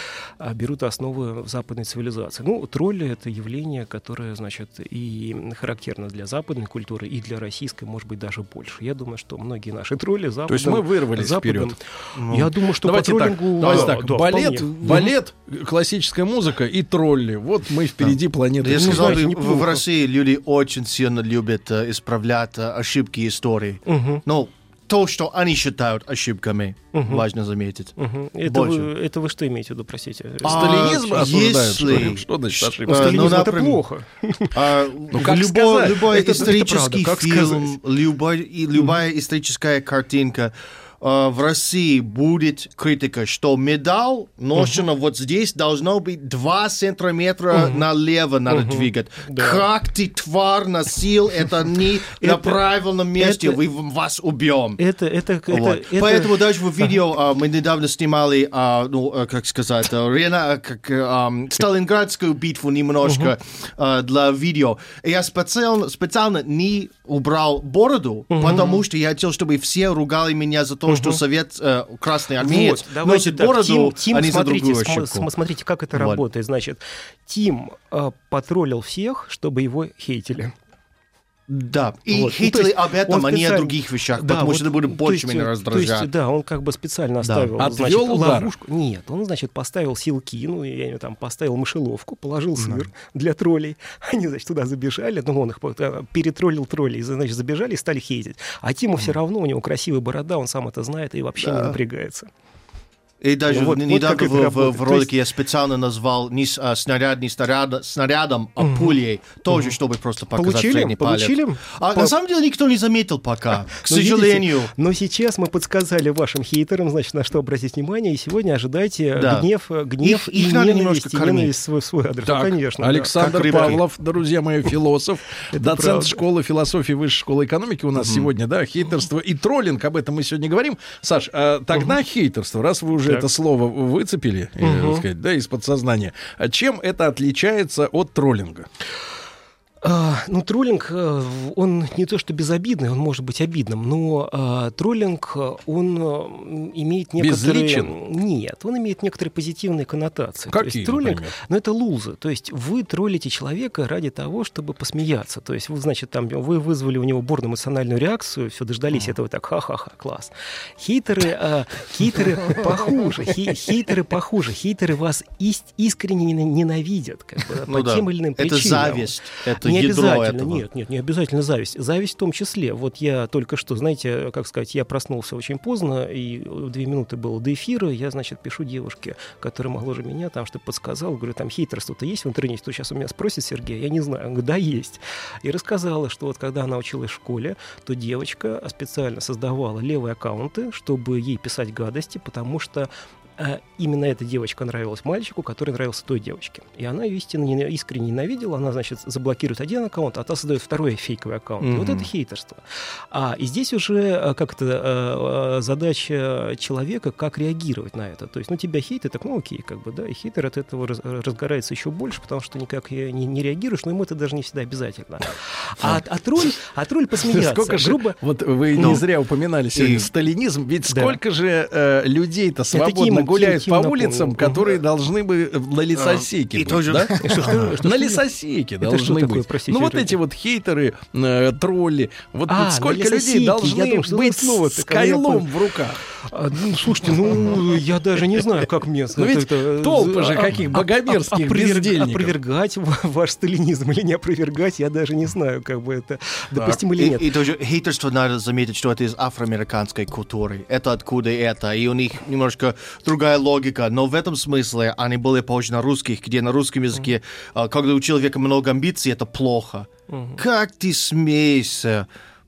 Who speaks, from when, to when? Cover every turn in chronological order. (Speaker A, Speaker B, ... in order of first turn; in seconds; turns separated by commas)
Speaker A: 0.4-15.1, Speaker B: 10.5-11.8, Speaker C: 12.2-12.5, Speaker B: 12.8-19.2, Speaker C: 13.6-13.9, Speaker C: 18.1-27.9, Speaker A: 18.7-19.8, Speaker A: 23.9-24.2, Speaker A: 26.9-27.3, Speaker A: 28.0-32.1, Speaker C: 28.5-28.9, Speaker B: 30.4-33.5, Speaker C: 30.4-33.8, Speaker A: 32.9-34.6, Speaker C: 34.5-54.8, Speaker B: 35.1-37.6, Speaker A: 36.0-37.7, Speaker A: 44.6-44.8, Speaker A: 47.5-47.9, Speaker A: 48.5-49.7, Speaker A: 52.2-53.6, Speaker A: 54.8-56.9, Speaker C: 55.5-75.3, Speaker A: 63.0-63.3, Speaker A: 68.3-68.8, Speaker A: 70.9-71.2, Speaker A: 72.4-80.5, Speaker C: 75.9-76.2, Speaker C: 81.5-86.1, Speaker A: 82.1-102.3, Speaker C: 87.2-87.5, Speaker B: 87.6-88.5, Speaker C: 92.6-92.9, Speaker C: 101.4-101.8, Speaker C: 103.2-114.7, Speaker A: 103.5-105.1, Speaker A: 108.6-109.8, Speaker A: 110.3-112.2, Speaker A: 113.8-123.8, Speaker C: 119.2-119.5, Speaker C: 120.0-121.5, Speaker B: 122.3-138.7, Speaker C: 123.2-123.8, Speaker A: 125.5-126.2, Speaker C: 128.0-128.3, Speaker A: 134.6-135.0, Speaker A: 139.8-218.2, Speaker B: 147.2-147.9, Speaker B: 150.5-151.4, Speaker C: 167.7-170.7, Speaker C: 201.6-202.1, Speaker B: 217.2-236.0, Speaker C: 218.8-219.0, Speaker C: 219.8-220.1, Speaker A: 220.9-221.2, Speaker A: 222.7-224.7, Speaker C: 225.9-227.8, Speaker A: 227.2-228.2, Speaker A: 228.8-230.2, Speaker A: 232.5-235.5, Speaker A: 236.2-247.3, Speaker B: 239.2-242.4, Speaker C: 246.9-262.1, Speaker A: 260.1-260.4